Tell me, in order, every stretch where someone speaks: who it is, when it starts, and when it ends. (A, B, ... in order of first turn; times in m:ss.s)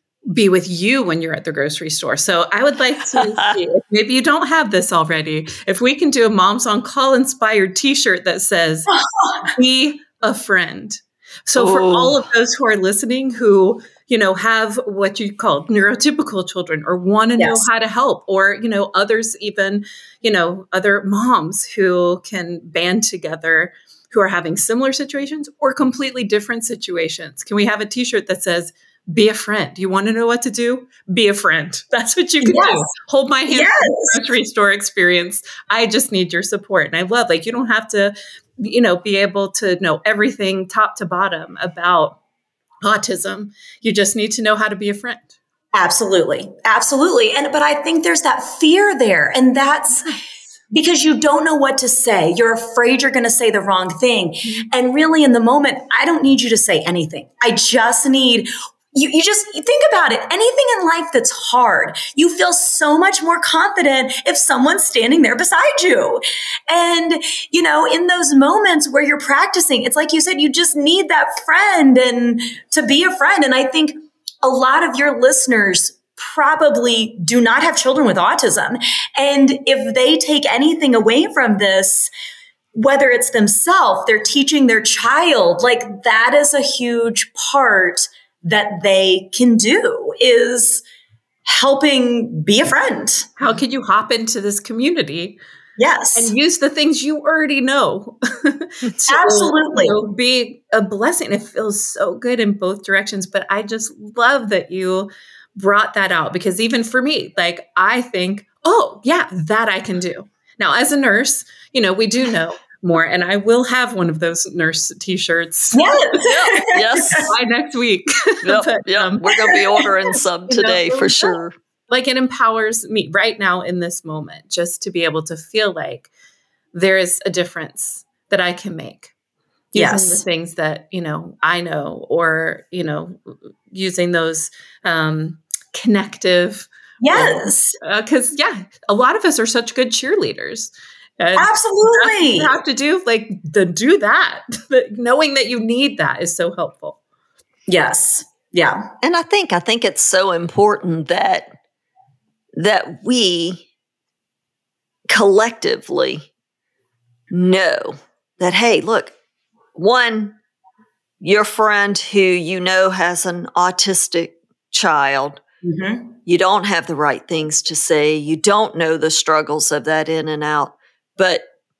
0:00.3-0:08.9 A
0:03.1-0:03.6 B
0:09.0-0:09.4 C
0:09.5-0:42.2 A
0:11.6-0:12.2 B
0:17.4-0:17.7 C
0:32.4-0:32.9 C
0:33.5-0:34.2 C
0:42.8-0:45.4 A
0:45.7-0:50.1 C
0:50.7-1:22.1 C
1:22.8-1:30.8 C
1:31.4-1:33.3 C
1:33.4-1:35.4 A
1:35.8-1:36.4 C
1:36.2-1:55.8 A
1:39.1-1:40.0 C
1:55.7-1:57.3 C
1:56.2-1:57.3 B
1:57.3-1:59.6 A
1:58.4-2:01.5 B
2:00.5-2:01.4 A
2:01.9-2:06.1 A
2:06.7-2:09.1 A
2:09.7-2:27.0 A
2:09.8-2:10.2 C
2:17.0-2:17.8 C
2:21.4-2:22.6 C
2:27.7-2:28.9 C
2:29.0-2:31.5 B
2:32.6-2:33.6 B
2:35.1-2:36.3 B
2:37.3-2:39.1 B
2:39.8-2:40.4 B
2:41.2-2:45.4 B
2:45.6-2:46.1 C
2:46.3-2:51.4 B